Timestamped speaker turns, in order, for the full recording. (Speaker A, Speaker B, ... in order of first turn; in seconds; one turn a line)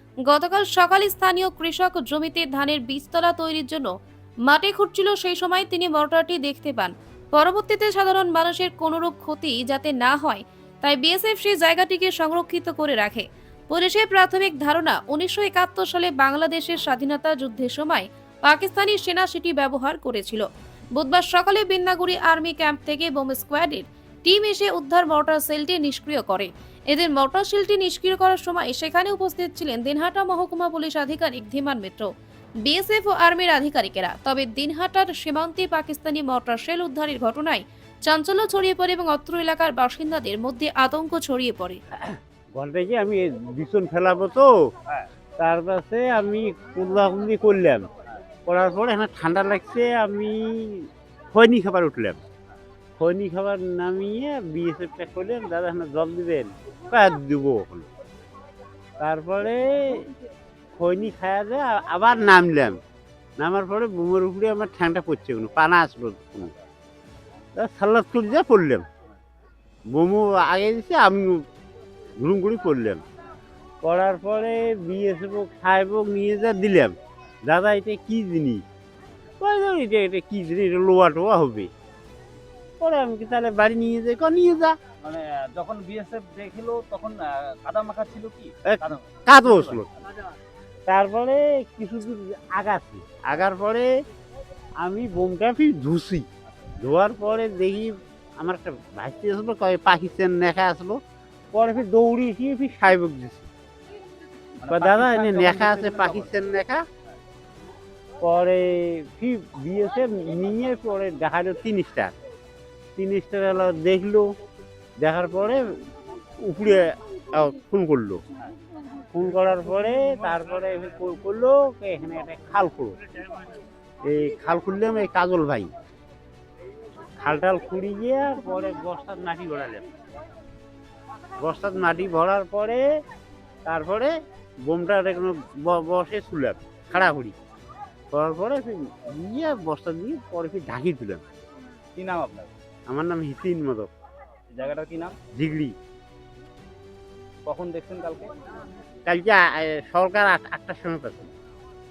Speaker A: 0.2-3.9
Speaker A: 4.5-20.4
Speaker A: 21.0-32.1
Speaker A: 32.6-41.8
Speaker B: 42.0-44.7
Speaker B: 45.4-47.9
Speaker B: 48.5-52.2
Speaker B: 53.0-57.9
Speaker B: 59.0-60.1
Speaker B: 60.7-62.8
Speaker B: 63.4-66.5
Speaker B: 67.5-68.8
Speaker B: 69.9-71.4
Speaker B: 72.2-73.0
Speaker B: 73.8-76.9
Speaker B: 77.5-78.6
Speaker B: 79.4-81.7
Speaker B: 82.8-84.7
Speaker C: 85.0-89.8
Speaker B: 88.7-89.9
Speaker B: 90.9-93.9
Speaker B: 94.8-96.2
Speaker B: 96.8-101.0
Speaker B: 101.5-103.5
Speaker C: 104.6-106.3
Speaker B: 104.7-106.8
Speaker B: 108.2-112.1
Speaker B: 113.0-114.3
Speaker B: 115.0-115.6
Speaker B: 116.4-118.2
Speaker B: 119.1-123.0
Speaker B: 124.0-125.7
Speaker B: 127.2-129.8
Speaker B: 131.4-132.8
Speaker B: 133.6-134.1
Speaker B: 134.6-137.3
Speaker B: 138.1-141.2
Speaker C: 141.9-142.5
Speaker B: 142.9-143.9
Speaker C: 144.5-145.2
Speaker B: 145.3-145.7
Speaker C: 147.4-148.3
Speaker B: 149.1-151.3